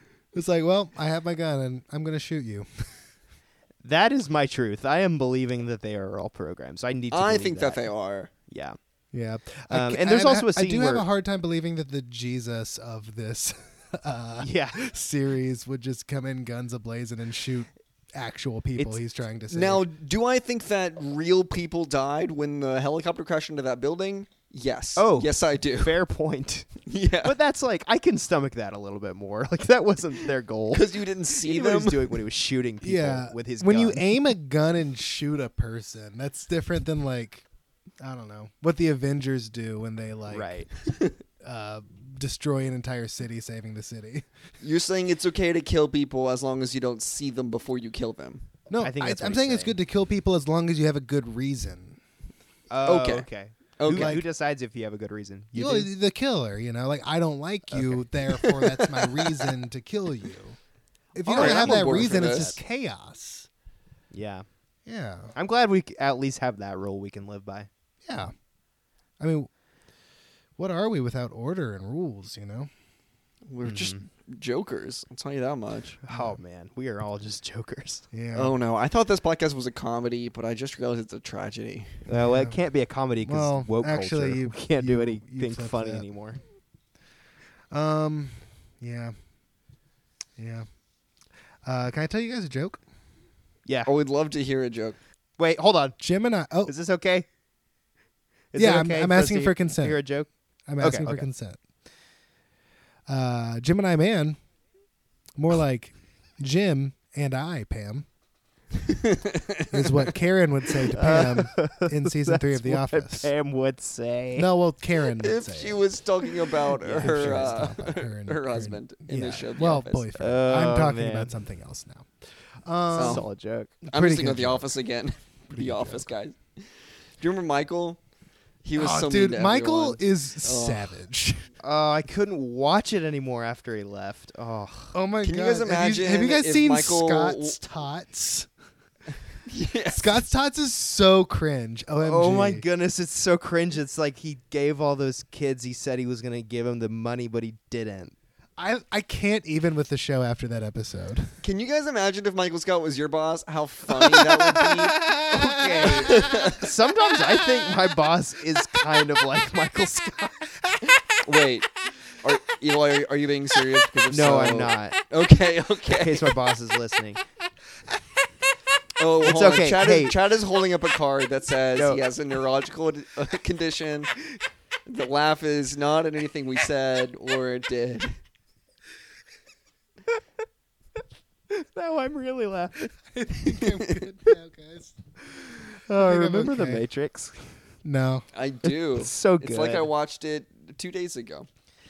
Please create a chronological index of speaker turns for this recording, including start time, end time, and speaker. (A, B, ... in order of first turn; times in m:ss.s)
0:00.3-0:02.9 A
0:03.8-0:07.8 B
0:07.1-0:08.3 C
0:08.5-0:08.8 B
0:09.1-0:19.8 A
0:09.7-0:11.0 B
0:14.4-0:14.8 B
0:19.5-0:25.9 C
0:25.0-0:34.0 B
0:26.9-0:27.3 C
0:30.7-0:32.1 C
0:32.8-0:37.4 A
0:38.0-0:40.5 A
0:40.3-0:40.7 B
0:40.9-0:41.2 C
0:41.4-0:44.3 A
0:44.6-0:48.5 C
0:48.7-0:52.0 A
0:48.8-0:49.8 B
0:52.7-0:55.9 B
0:52.8-0:53.3 C
0:53.8-0:54.1 C
0:53.9-0:54.2 A
0:55.5-1:00.6 A
0:57.7-0:58.0 B
0:58.4-0:59.5 C
1:01.1-1:03.5 A
1:01.2-1:02.5 C
1:01.3-1:02.6 B
1:04.1-1:04.4 B
1:04.8-1:05.3 A
1:05.3-1:07.7 B
1:08.0-1:08.3 A
1:09.2-1:09.5 A
1:10.6-1:12.7 A
1:13.5-1:16.0 C
1:13.6-1:14.0 B
1:16.0-1:18.1 B
1:16.1-1:16.4 A
1:18.1-1:18.5 A
1:18.3-1:22.0 C
1:22.1-1:26.4 B
1:22.1-1:22.6 A
1:23.2-1:26.0 A
1:27.7-1:29.1 A
1:30.4-1:30.7 A
1:31.6-1:32.8 A
1:33.8-1:35.0 C
1:35.4-1:36.0 B
1:36.0-1:36.7 A
1:36.6-1:37.2 B
1:38.5-1:40.3 B
1:38.6-1:40.0 A
1:40.7-1:41.6 A
1:40.8-1:41.2 B
1:43.1-1:44.4 A
1:45.4-1:48.0 A
1:48.8-1:50.1 C
1:49.7-1:53.3 A
1:50.9-1:54.5 B
1:54.4-1:55.8 A
1:55.2-2:00.0 C
1:56.8-1:57.6 B
1:57.0-2:03.2 A
2:00.2-2:01.3 B
2:02.9-2:03.8 B
2:02.9-2:03.2 C
2:03.8-2:04.7 A
2:03.9-2:06.7 C
2:05.5-2:06.1 A
2:07.2-2:08.0 C
2:08.6-2:10.9 C
2:08.8-2:11.5 A
2:11.6-2:14.9 B
2:14.9-2:18.5 A
2:15.2-2:17.6 C
2:19.5-2:20.2 C
2:19.9-2:22.6 A
2:22.0-2:28.1 B
2:28.6-2:31.3 A
2:31.4-2:35.0 C
2:35.0-2:40.6 B
2:35.3-2:36.5 A
2:35.8-2:36.6 C
2:41.2-2:46.3 C
2:44.1-2:45.0 B
2:45.9-2:47.2 B
2:49.0-2:54.1 C
2:49.2-2:50.2 B
2:51.8-2:52.0 B
2:54.8-2:58.2 C
3:01.5-3:03.0 B
3:03.1-3:05.0 A
3:03.5-3:04.0 C
3:05.4-3:07.6 B
3:05.9-3:06.8 A
3:07.8-3:08.2 A
3:08.3-3:11.5 C
3:08.9-3:09.9 B